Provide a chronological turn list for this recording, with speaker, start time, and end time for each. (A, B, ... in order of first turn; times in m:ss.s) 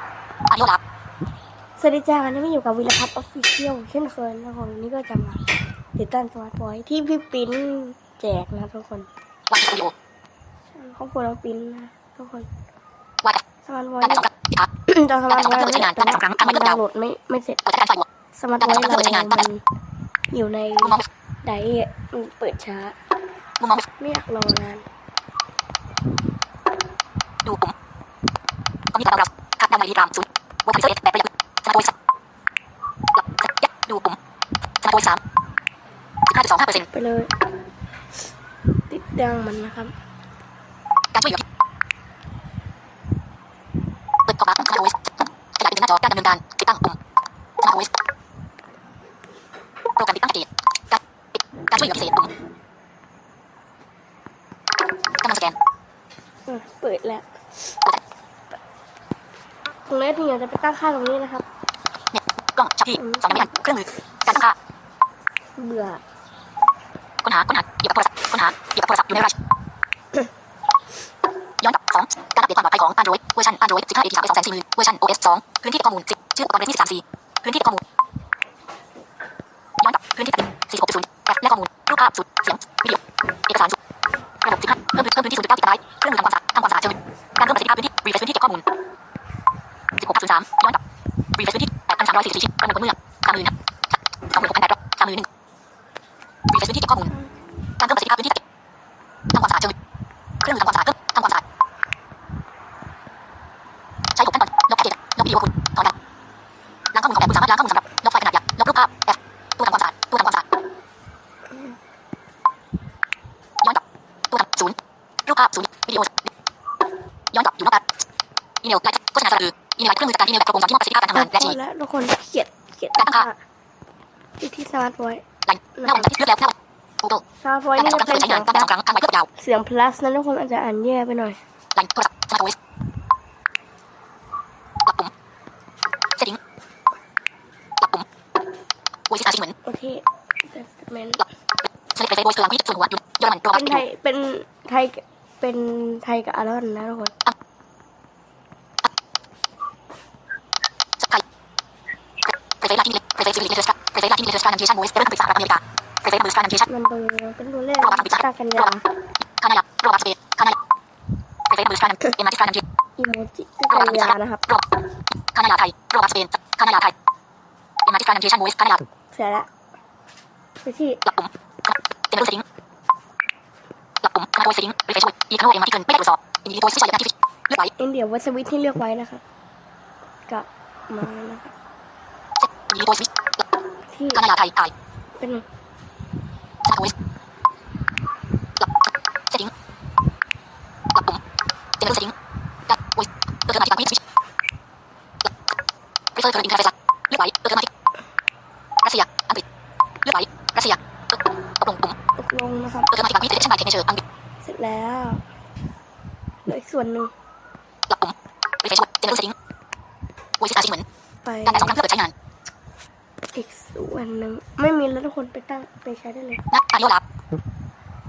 0:00.5-0:00.8 A
0:01.8-0:09.1 B
0:09.5-0:09.9 A
0:10.7-0:12.5 B
0:13.6-0:14.3 B
0:14.0-0:14.7 A
0:14.9-0:17.6 B
0:15.3-0:16.8 A
0:17.6-0:18.1 A
0:18.4-0:19.6 B
0:18.6-0:19.5 A
0:20.3-0:23.0 B
0:20.8-0:21.1 A
0:23.6-0:23.9 A
0:24.0-0:24.8 B
0:27.4-0:27.7 A
0:28.9-0:31.9 A
0:33.2-0:34.2 A
0:34.8-0:35.2 A
0:36.3-0:36.9 A
0:36.8-0:37.3 B
0:38.9-0:40.0 B
0:41.1-0:41.4 A
0:44.3-0:47.0 A
0:47.6-0:47.9 A
0:50.0-0:52.3 A
0:55.2-0:55.6 A
0:56.5-0:57.3 B
0:59.9-1:01.5 B
1:02.1-1:04.6 A
1:03.0-1:03.5 B
1:05.6-1:06.0 B
1:07.2-1:09.3 A
1:11.6-1:17.8 A
1:19.8-1:23.8 A
1:24.4-1:28.7 A
1:30.0-1:30.8 A
1:31.4-1:33.5 A
1:34.3-1:35.3 A
1:36.5-1:37.1 A
1:37.8-1:38.4 A
1:39.3-1:39.8 A
1:40.4-1:41.4 A
1:44.2-1:46.0 A
1:46.9-1:50.4 A
1:53.6-1:56.3 A
1:57.3-1:57.8 A
1:58.6-2:01.6 A
2:01.1-2:03.4 B
2:03.0-2:03.3 A
2:04.4-2:05.2 B
2:05.5-2:07.2 A
2:05.8-2:06.1 B
2:07.4-2:08.7 B
2:07.8-2:09.3 A
2:09.4-2:11.4 B
2:11.8-2:12.6 A
2:14.9-2:15.1 A
2:17.8-2:18.1 A
2:19.1-2:19.6 A
2:19.6-2:21.2 B
2:21.6-2:23.8 A
2:23.5-2:27.1 B
2:31.0-2:31.2 A
2:32.5-2:36.7 A
2:36.7-2:38.8 B
2:37.8-2:40.6 A
2:41.5-2:42.6 A
2:43.0-2:44.5 B
2:43.7-2:44.7 A
2:45.3-2:46.9 A
2:47.8-2:48.8 A
2:49.1-2:49.5 B
2:50.6-2:51.0 B
2:51.0-2:52.4 A
2:54.0-2:57.7 A
2:57.8-2:59.2 B
3:00.3-3:01.5 B
3:02.4-3:03.4 A
3:03.9-3:04.2 B
3:04.1-3:04.7 A
3:05.2-3:05.4 B
3:06.6-3:06.9 A
3:08.6-3:09.5 A
3:10.9-3:11.2 A
3:11.8-3:12.1 A
3:12.7-3:14.0 A
3:16.2-3:17.7 A
3:18.8-3:19.4 A
3:20.0-3:22.0 A
3:22.2-3:22.9 B
3:22.9-3:24.0 A
3:24.4-3:25.2 B
3:26.5-3:27.1 B
3:27.9-3:29.4 A
3:30.4-3:30.9 A
3:31.2-3:31.8 B
3:31.4-3:32.1 A
3:33.3-3:36.4 B
3:36.5-3:37.0 A